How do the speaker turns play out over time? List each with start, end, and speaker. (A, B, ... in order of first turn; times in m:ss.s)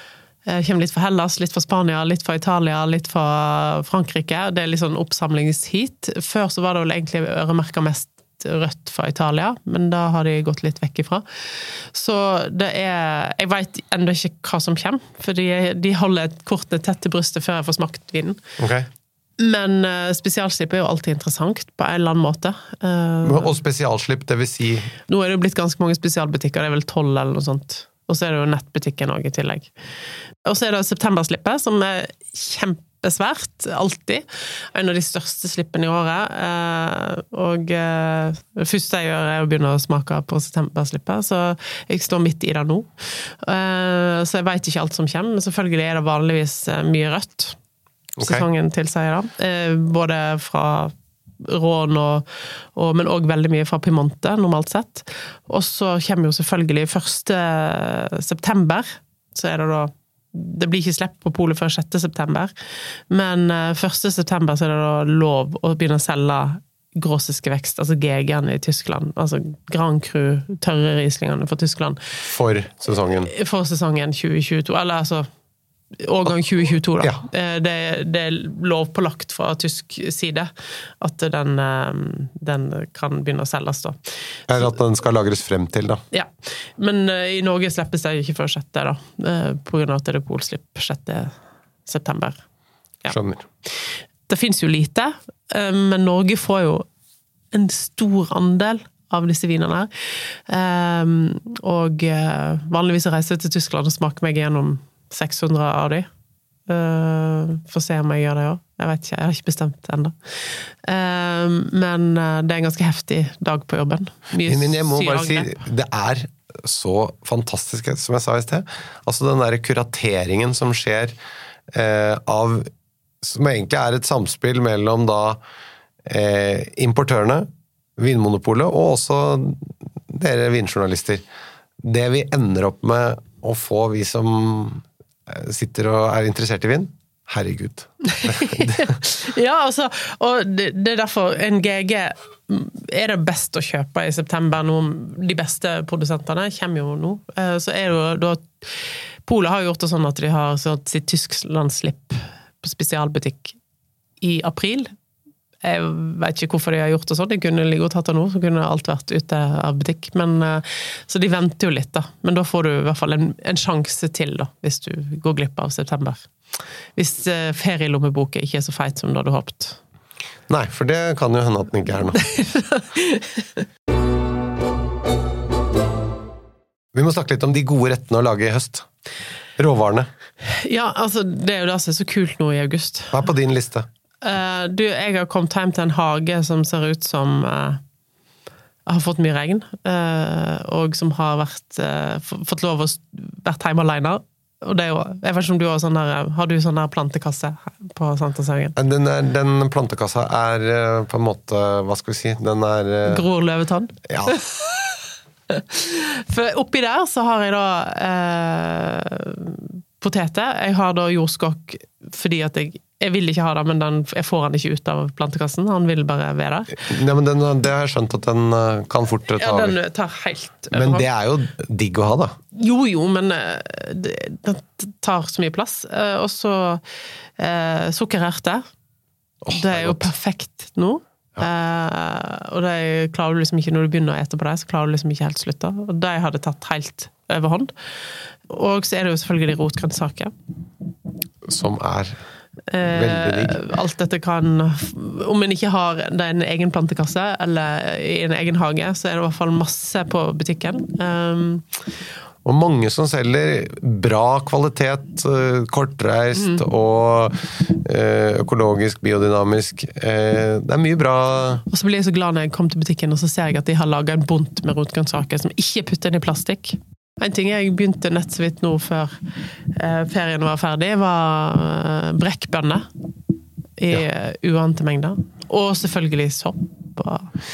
0:00.5-0:18.4 A
0:18.6-0:18.9 B
0:19.4-0:23.6 A
0:23.2-0:24.9 B
0:25.1-0:29.7 A
0:30.5-0:47.6 A
0:48.2-0:48.5 B
0:48.2-1:02.5 A
1:03.1-1:12.0 A
1:12.2-1:13.3 B
1:13.3-1:15.3 A
1:16.0-1:20.5 A
1:21.0-1:24.0 A
1:24.5-1:26.0 B
1:26.1-1:31.3 A
1:31.9-1:32.4 A
1:33.1-1:33.5 B
1:34.3-1:36.9 A
1:37.5-1:39.9 A
1:40.5-1:46.1 A
1:46.7-1:55.6 A
1:54.4-2:01.2 B
2:01.7-2:02.7 B
2:03.2-2:05.4 B
2:06.1-2:11.2 B
2:11.8-2:18.9 B
2:18.1-2:33.6 A
2:34.2-2:34.9 A
2:35.6-2:46.3 A
2:47.0-2:49.8 A
2:50.5-2:52.2 B
2:52.2-2:53.6 A
2:56.9-2:58.9 B
2:59.6-3:00.1 B
3:00.4-3:03.2 A
3:03.1-3:03.9 B
3:04.2-3:07.8 A
3:08.9-3:18.8 A
3:18.8-3:23.3 B
3:23.0-3:25.0 A
3:24.1-3:24.4 B
3:25.5-3:36.8 A
3:36.8-3:39.8 B
3:39.4-3:41.1 A
3:40.7-3:42.4 B
3:42.5-3:46.8 A
3:47.4-3:48.6 A
3:49.4-3:50.1 B
3:49.5-3:57.7 A
3:58.5-4:00.3 A
4:01.4-4:02.2 B
4:02.7-4:11.6 A
4:02.8-4:03.6 B
4:12.4-4:21.6 B
4:16.4-4:16.6 A
4:21.7-4:29.2 A
4:29.7-4:32.9 A
4:33.8-4:37.3 A